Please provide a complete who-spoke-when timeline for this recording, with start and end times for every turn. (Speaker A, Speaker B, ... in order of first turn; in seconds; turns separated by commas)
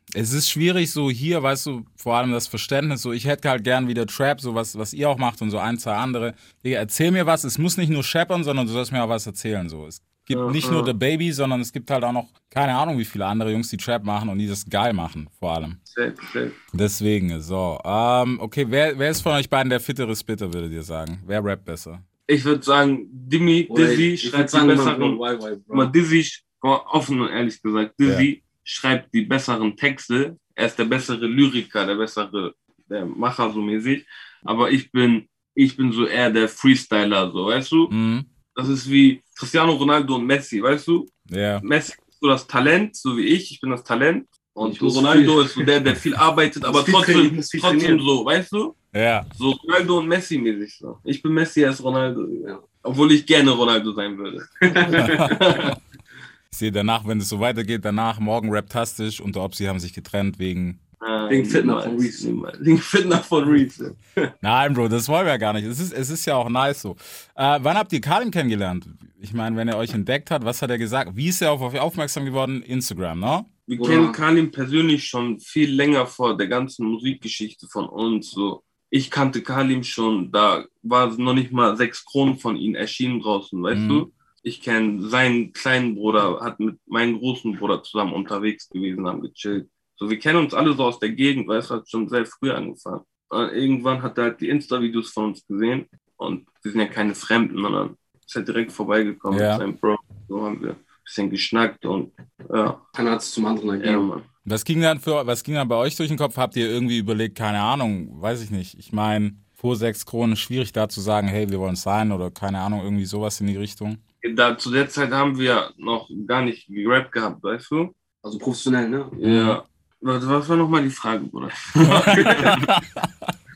Speaker A: 0.1-15.8, Speaker B: 10.3-10.9, Speaker B: 15.9-16.6, Speaker A: 16.7-22.0, Speaker B: 22.3-25.2, Speaker C: 23.7-25.9, Speaker B: 25.7-37.9, Speaker A: 37.9-38.3, Speaker B: 38.5-48.8, Speaker A: 41.3-41.6, Speaker C: 44.6-45.7, Speaker C: 46.6-48.0, Speaker A: 48.9-49.3, Speaker B: 49.4-55.8, Speaker C: 54.6-55.2, Speaker A: 55.0-55.7, Speaker A: 56.5-60.8, Speaker B: 61.0-64.0, Speaker C: 61.3-62.2, Speaker A: 64.4-73.5, Speaker B: 73.7-102.8, Speaker C: 73.8-74.2, Speaker A: 83.7-84.1, Speaker A: 99.3-99.6, Speaker C: 103.0-104.1, Speaker B: 103.8-104.3, Speaker A: 104.5-114.0, Speaker B: 114.2-117.9, Speaker C: 118.2-119.2, Speaker B: 119.2-122.7, Speaker A: 119.2-119.6, Speaker A: 121.9-123.1